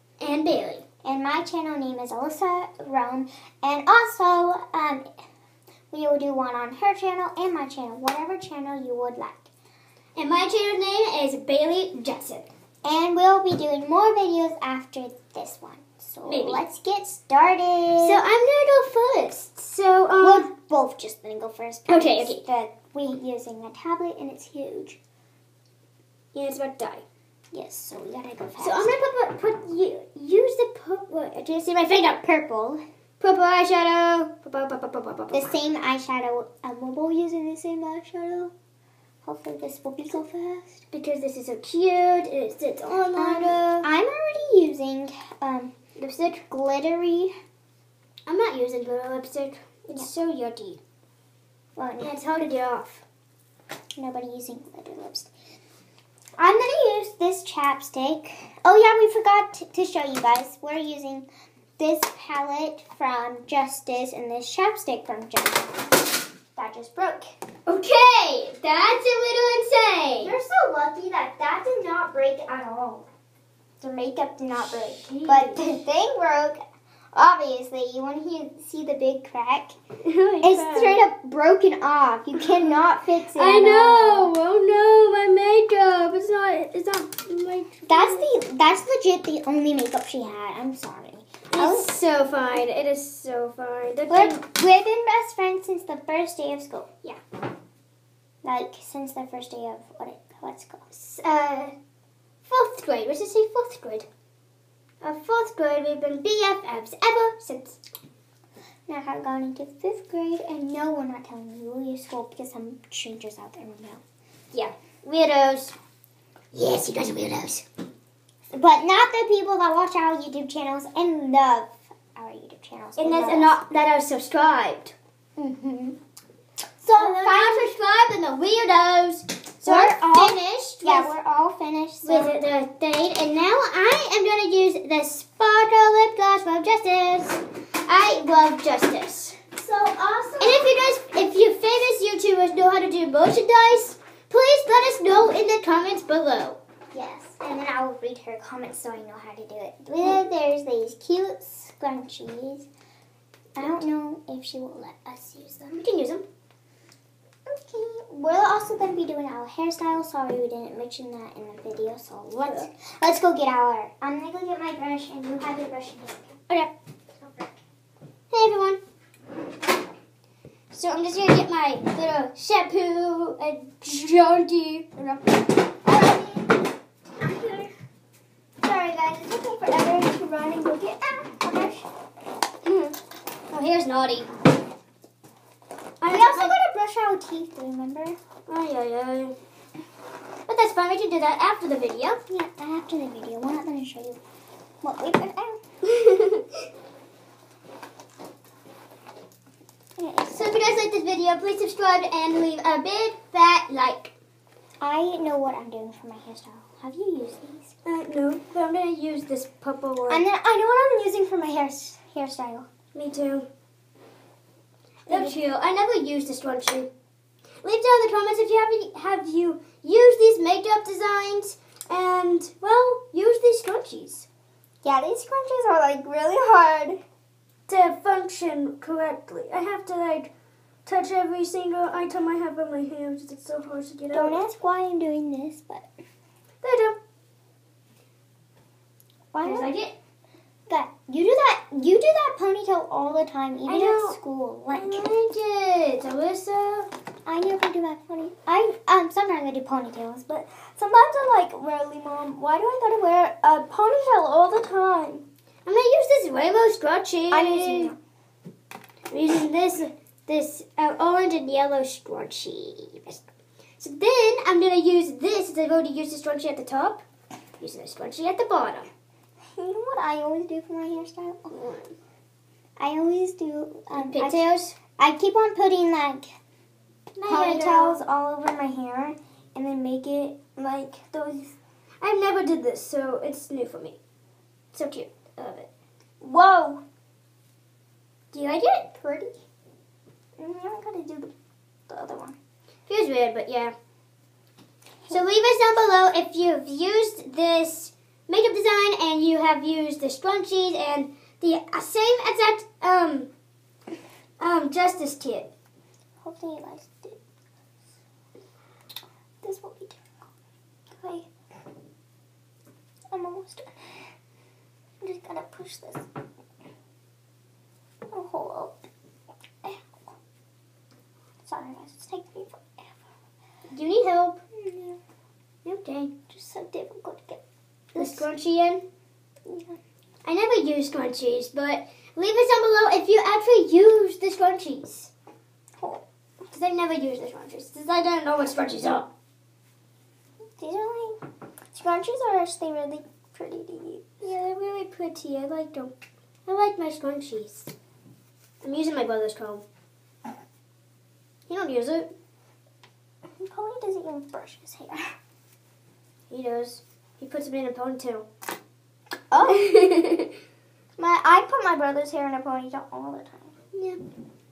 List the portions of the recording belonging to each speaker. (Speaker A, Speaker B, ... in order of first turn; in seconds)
Speaker A: 0.2-0.8, 10.2-12.5, 16.2-16.6, 18.0-20.5, 21.9-22.4, 26.3-27.0, 28.6-32.2, 33.2-35.5, 40.9-43.9, 46.0-46.4, 48.2-50.8, 52.0-53.0, 67.7-70.3, 75.0-75.6, 80.0-81.0, 83.3-88.3, 91.5-94.3, 100.9-101.7, 102.4-104.1, 105.0-107.8, 114.5-115.7, 116.5-117.6, 123.0-124.9, 126.9-131.1, 132.0-139.4, 140.4-146.6, 155.7-156.2, 168.3-168.8, 170.7-175.4, 182.6-182.9, 183.5-184.3, 186.0-186.6, 188.5-189.3, 190.5-192.2, 195.8-196.4, 200.3-204.1, 207.8-210.2, 212.9-213.5, 215.1-216.9, 217.6-224.3, 227.7-230.3, 230.8-234.4, 236.6-237.0, 239.4-239.9, 243.7-244.1, 244.7-246.9, 255.7-257.9, 259.1-263.2, 263.8-267.0, 267.6-268.9, 271.5-271.9, 273.9-274.8, 277.2-278.0, 282.0-284.0, 284.7-285.7, 288.3-289.1, 292.9-293.7, 295.1-303.3, 304.4-305.5, 323.7-324.4, 325.6-326.1, 327.9-328.8, 330.2-335.1, 336.5-339.1, 344.2-345.9, 346.5-347.7, 348.6-349.6, 351.5-352.1, 356.3-358.3, 359.4-360.3, 363.7-364.0
Speaker B: 1.0-5.0, 5.9-9.5, 12.8-18.2, 20.2-25.0, 27.5-28.9, 32.1-32.8, 35.3-38.5, 39.2-40.8, 43.1-45.7, 46.5-47.3, 51.8-52.1, 54.0-55.3, 56.4-61.3, 61.8-66.0, 66.5-67.3, 70.2-73.0, 73.8-76.6, 77.1-79.8, 80.4-84.3, 87.9-91.9, 94.1-96.9, 98.4-100.8, 108.9-114.0, 118.5-123.6, 125.4-126.0, 126.8-127.7, 129.6-132.4, 139.5-140.9, 146.9-152.7, 153.6-155.8, 157.5-166.4, 167.2-167.6, 175.8-176.6, 177.2-177.7, 178.6-181.9, 186.1-188.2, 192.3-194.2, 194.8-195.6, 200.0-200.5, 204.8-207.7, 210.1-212.7, 215.1-215.3, 224.8-227.0, 234.1-235.8, 239.3-239.7, 240.7-245.1, 247.2-255.2, 257.3-258.0, 269.6-271.5, 272.8-274.4, 275.0-276.3, 277.2-281.5, 286.2-286.8, 290.4-291.3, 291.9-292.4, 306.2-307.2, 309.4-310.0, 310.9-311.3, 313.1-313.9, 315.0-316.1, 318.1-318.8, 321.4-322.9, 324.5-325.0, 326.3-327.4, 327.9-328.3, 329.4-329.8, 340.6-341.2, 341.7-344.1, 353.3-355.1, 359.3-359.6, 361.0-363.5